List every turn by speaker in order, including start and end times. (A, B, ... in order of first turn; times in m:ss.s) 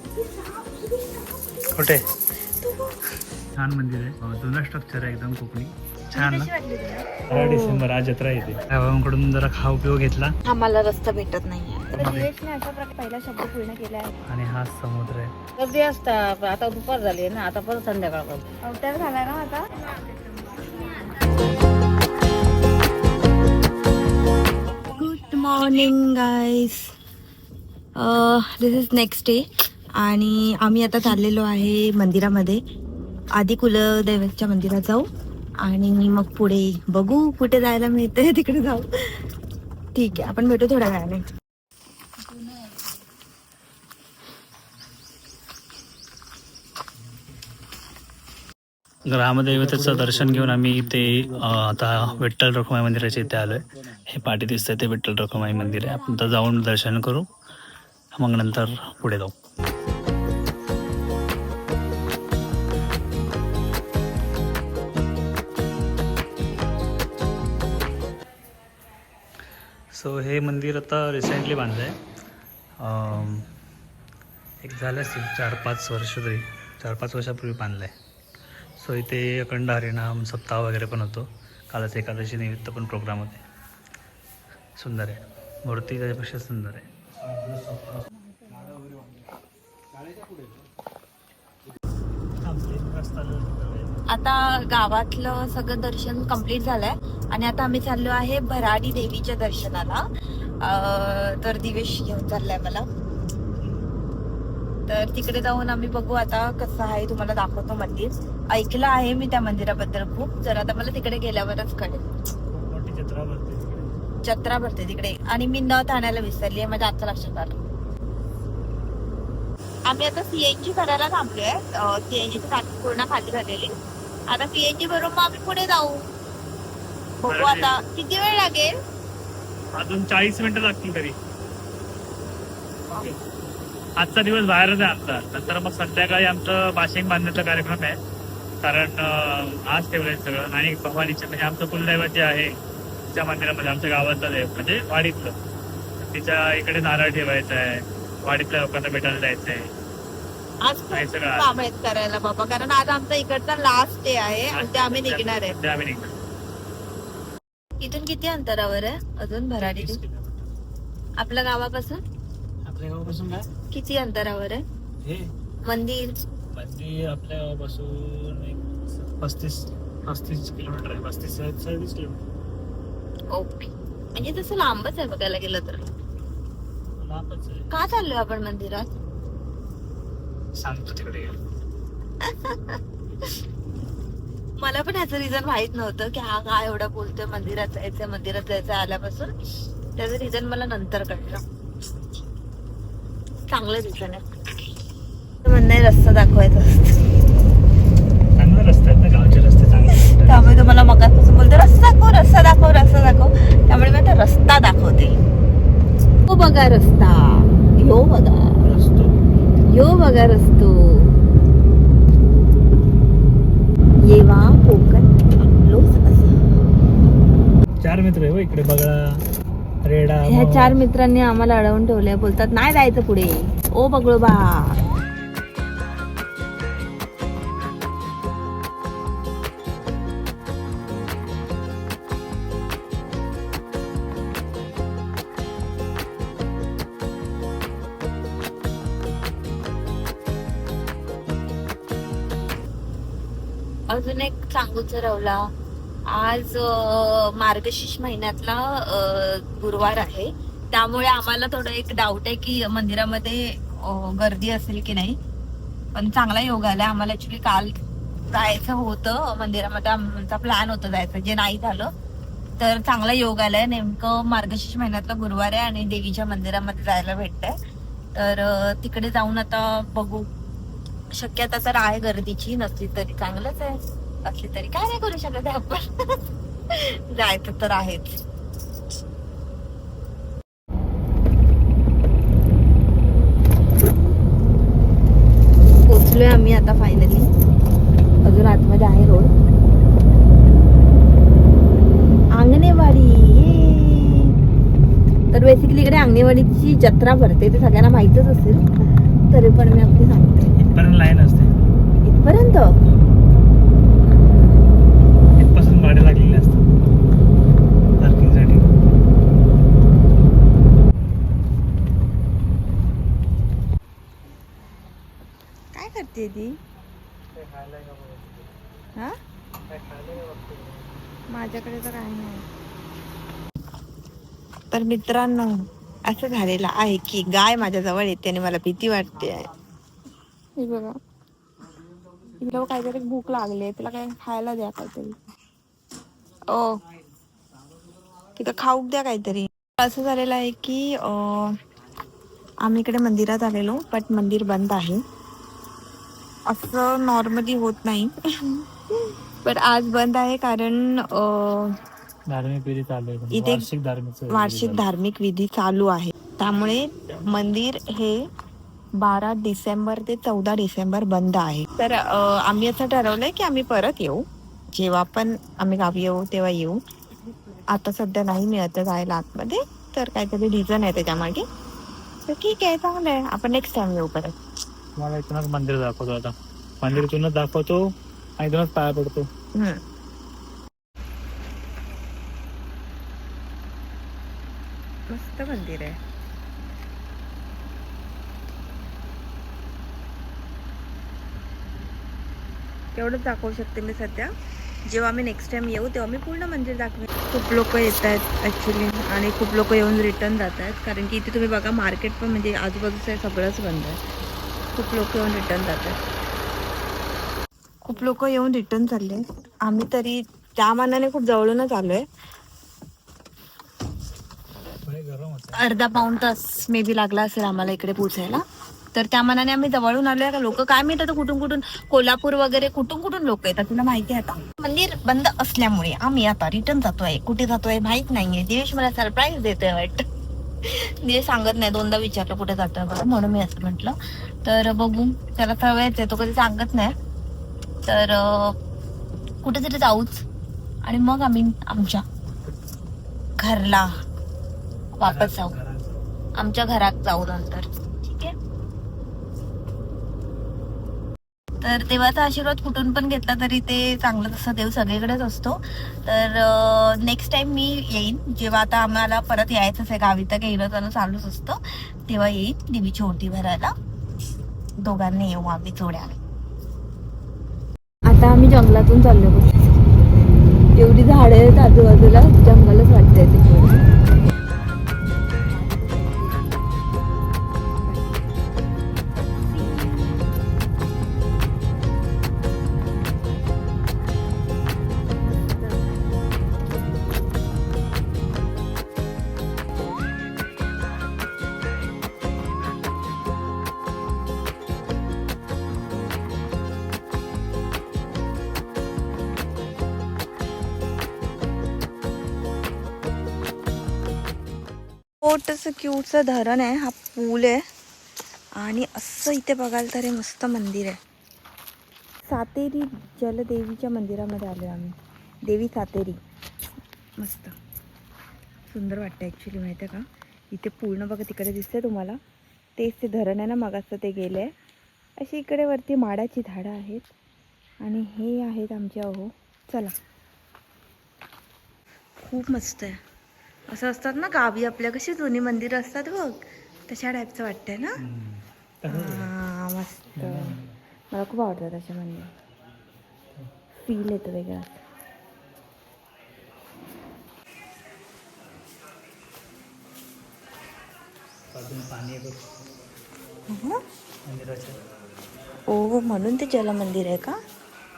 0:00.2-0:01.7 A
0:01.7-0:02.1 B
0:02.6-0:03.0 A
0:03.6-0:06.5 B
0:06.2-0:07.8 A
0:07.3-0:10.3 B
0:10.4-0:14.1 A
0:11.9-0:12.3 B
0:14.3-0:15.3 B
0:15.6-0:18.4 C
0:18.6-0:19.7 A
0:24.9-0:26.9 A
0:28.0-0:32.6 A
0:33.3-0:35.1 A
0:35.6-0:38.9 A
0:39.9-0:41.2 A
0:49.0-0:57.2 B
0:58.1-0:59.3 B
1:09.9-1:12.0 B
1:12.8-1:13.5 B
1:14.6-1:17.9 B
1:18.8-1:23.4 B
1:24.8-1:28.0 B
1:32.4-1:33.9 B
1:34.1-1:40.0 A
1:40.6-1:42.9 A
1:44.9-1:52.0 A
1:52.5-1:54.0 B
1:54.2-1:57.6 A
1:59.9-2:03.7 A
2:04.3-2:06.0 A
2:07.2-2:08.7 A
2:07.2-2:07.8 B
2:09.7-2:11.2 B
2:14.0-2:18.0 B
2:18.6-2:22.5 B
2:23.1-2:25.4 B
2:26.0-2:29.7 B
2:30.6-2:35.6 A
2:30.9-2:31.5 B
2:34.5-2:36.1 B
2:37.8-2:40.0 A
2:39.6-2:40.5 B
2:41.2-2:42.0 A
2:42.6-2:43.4 B
2:43.7-2:44.6 A
2:45.0-2:45.3 B
2:45.6-2:46.1 A
2:46.5-2:52.2 B
2:53.3-2:55.9 A
2:57.0-2:57.7 B
2:57.7-2:58.9 A
3:00.6-3:01.4 B
3:02.2-3:02.8 A
3:04.6-3:09.3 A
3:10.0-3:11.4 A
3:13.5-3:14.3 A
3:15.4-3:17.0 A
3:18.4-3:20.7 B
3:19.9-3:25.1 A
3:26.3-3:28.6 A
3:28.6-3:29.2 B
3:29.7-3:30.8 A
3:34.0-3:36.4 A
3:37.8-3:39.2 B
3:39.8-3:40.8 B
3:40.2-3:44.8 A
4:03.9-4:05.4 A
4:06.1-4:15.2 A
4:15.9-4:17.7 A
4:18.3-4:21.9 A
4:22.6-4:27.5 A
4:28.1-4:30.3 A
4:31.1-4:36.2 A
4:36.7-4:38.2 A
4:45.9-4:47.3 A
4:48.2-4:49.3 A
4:52.4-4:54.2 A
4:55.3-4:58.6 A
4:59.3-5:00.5 A
5:00.6-5:01.5 B
5:02.0-5:02.7 A
5:05.4-5:06.6 B
5:08.0-5:08.7 B
5:15.7-5:16.6 A
5:17.3-5:18.5 B
5:19.7-5:21.0 B
5:21.3-5:22.4 A
5:24.7-5:29.5 A
5:30.6-5:31.0 A
5:32.4-5:35.2 A
5:36.5-5:36.8 A
5:38.4-5:41.6 A
5:42.6-5:45.0 A
5:46.5-5:48.6 A
5:49.4-5:51.7 A
5:52.3-5:54.9 B
5:53.3-5:53.6 A
5:54.3-5:58.2 A
5:59.0-6:06.8 A
6:07.7-6:11.4 A
6:12.2-6:14.4 A
6:15.0-6:19.3 B
6:19.5-6:19.8 A
6:25.1-6:26.0 A
6:32.9-6:34.3 A
6:34.8-6:44.0 A
6:44.7-6:45.9 A
6:47.8-6:52.0 A
6:54.8-6:55.6 B
6:55.5-6:58.4 A
6:58.9-7:10.0 A
7:10.6-7:16.9 A
7:17.8-7:18.5 A
7:19.4-7:20.2 A
7:20.8-7:22.0 A
7:23.4-7:23.9 A
7:25.0-7:25.5 A
7:25.0-7:26.0 B
7:26.4-7:28.3 A
7:31.6-7:43.7 A
7:44.8-7:46.2 A
7:48.0-7:49.7 A
7:50.8-7:53.9 A
7:55.4-7:56.6 A
7:57.8-7:58.4 A
7:59.1-8:00.3 A
8:05.3-8:06.2 A
8:25.2-8:27.6 A
8:28.6-8:31.0 A
8:32.3-8:36.2 A
8:37.2-8:37.5 A
8:38.7-8:42.2 A
8:42.8-8:44.5 A
8:45.2-8:47.0 A
8:47.8-8:49.9 A
8:52.2-8:53.0 A
8:53.7-8:58.0 A
8:58.0-8:59.3 B
8:58.9-9:00.6 A
9:00.1-9:00.7 B
9:01.1-9:02.3 A
9:03.8-9:04.8 A
9:11.5-9:12.5 B
9:13.5-9:13.8 A
9:14.2-9:14.8 B
9:15.7-9:17.4 A